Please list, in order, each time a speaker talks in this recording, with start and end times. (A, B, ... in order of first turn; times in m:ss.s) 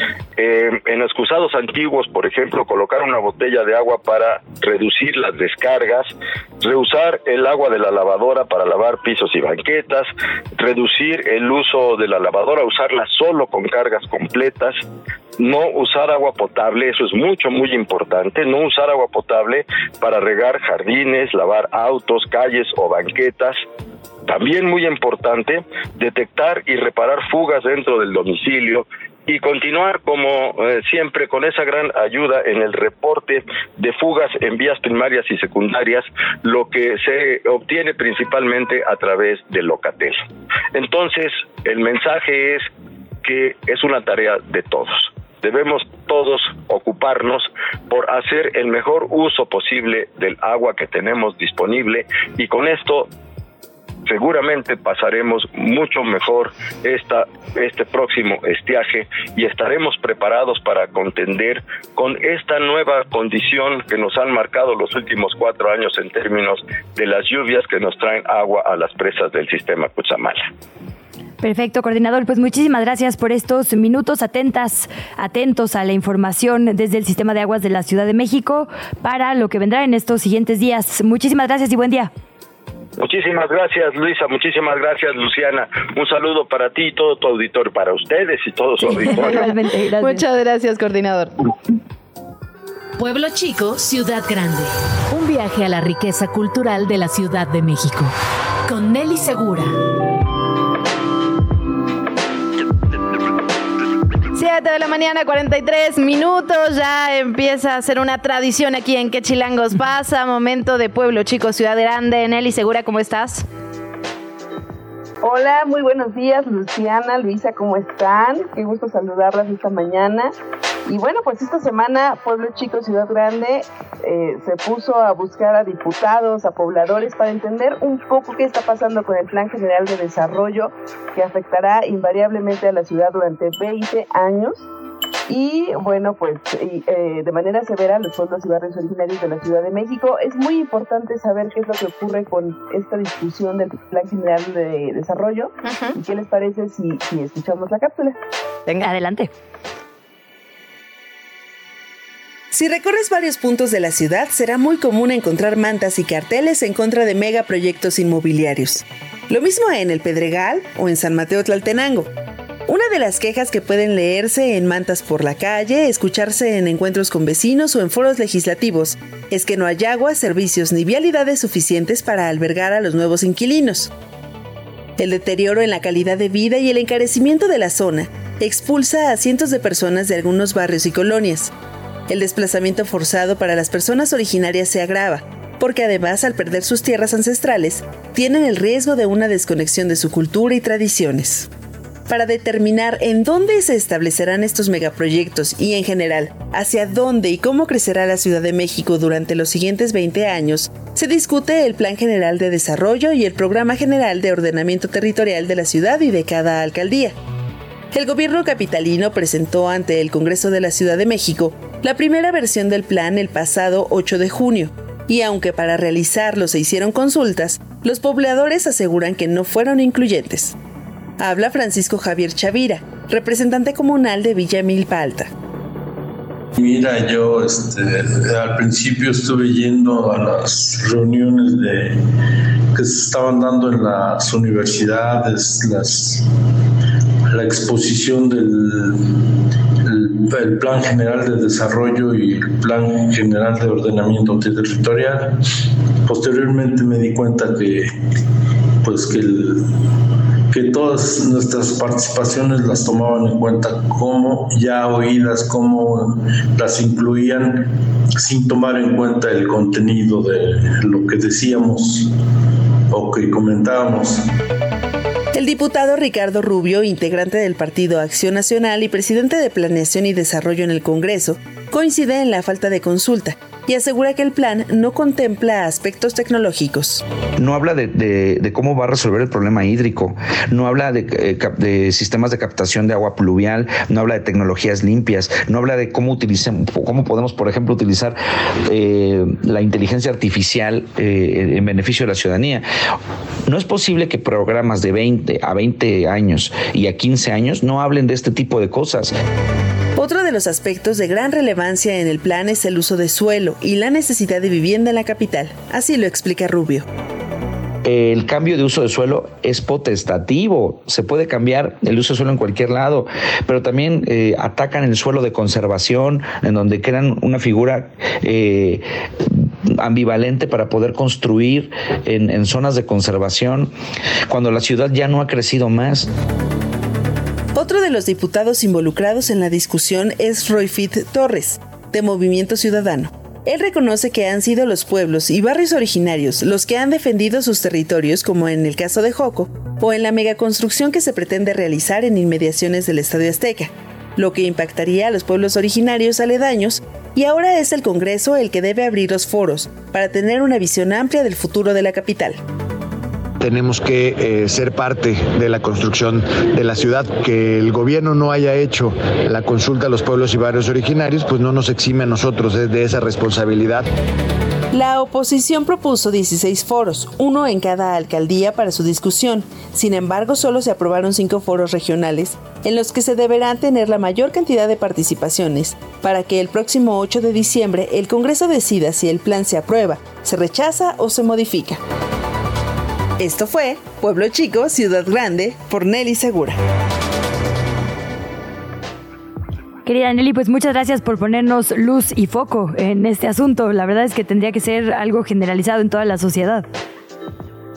0:00.4-0:14.8 A
0:15.4-0:23.6 A
0:24.2-0:42.7 A
0:43.2-0:53.1 A
0:54.0-1:10.5 A
1:11.4-1:22.1 B
1:23.0-1:29.4 A
1:28.8-1:30.2 B
1:29.2-1:31.4 C
1:33.0-1:38.1 D
1:38.7-1:39.7 D
1:44.3-1:53.4 C
1:55.2-2:00.3 E
2:00.9-2:14.6 E
2:15.3-2:28.2 E
2:28.8-2:29.3 B
2:32.5-2:42.1 F
2:42.7-2:53.9 F
2:55.0-3:01.5 F
3:02.1-3:11.5 F
3:12.1-3:27.1 F
3:27.9-3:40.5 F
3:41.2-3:45.3 F
3:46.5-3:52.0 G
3:52.7-3:56.3 G
3:57.3-3:59.3 G
3:59.8-4:08.0 G
4:08.8-4:09.7 G
4:10.5-4:22.1 G
4:22.9-4:24.3 G
4:25.3-4:37.0 F
4:37.4-4:52.6 H
4:53.4-4:59.1 H
5:00.0-5:06.8 F
5:07.8-5:23.7 H
5:24.3-5:26.1 H
5:27.5-5:52.4 F
5:53.4-6:03.8 I
6:04.7-6:21.8 F
6:23.2-6:26.6 F
6:29.8-6:36.6 B